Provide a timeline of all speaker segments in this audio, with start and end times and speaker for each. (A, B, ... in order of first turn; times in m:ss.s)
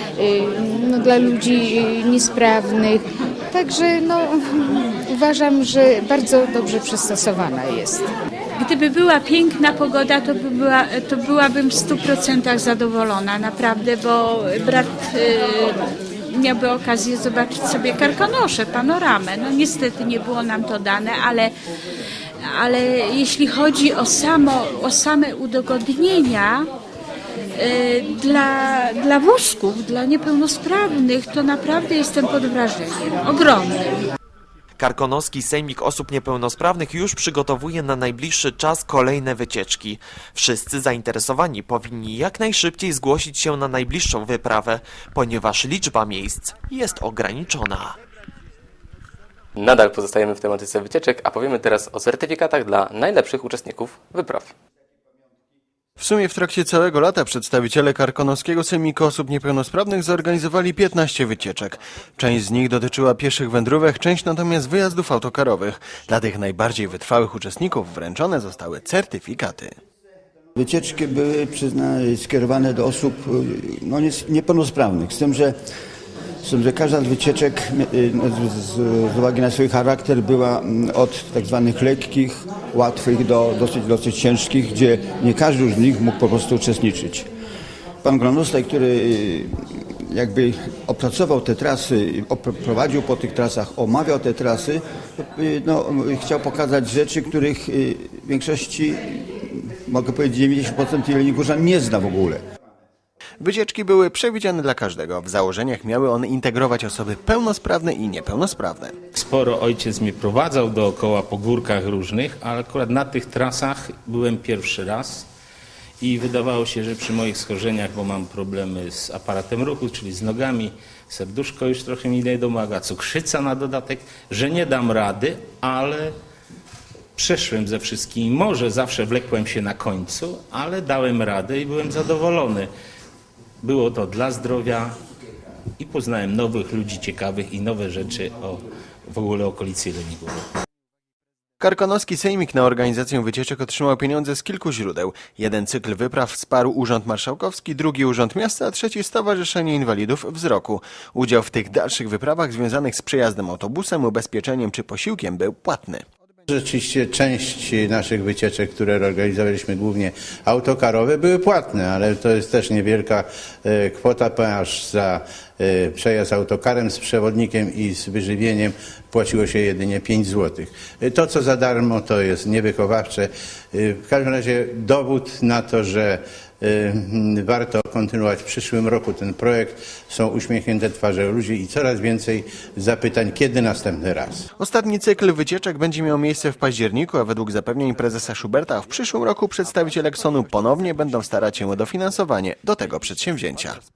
0:00.2-0:08.0 A
0:08.6-0:21.5 B
0:22.5-0:26.7 B
0:27.6-0:33.8 B
0:34.8-0:48.0 C
0:49.6-0:54.5 D
0:56.0-1:09.7 E
1:10.6-1:15.5 F
1:16.4-1:27.3 F
1:28.0-1:29.5 F
1:30.1-1:42.4 F
1:43.4-1:48.9 E
1:49.1-1:55.2 G
1:56.0-2:06.1 G
2:07.2-2:12.7 G
2:13.6-2:15.0 G
2:15.8-2:20.4 G
2:21.6-2:36.0 E
2:36.5-3:04.5 H
3:04.6-3:13.8 E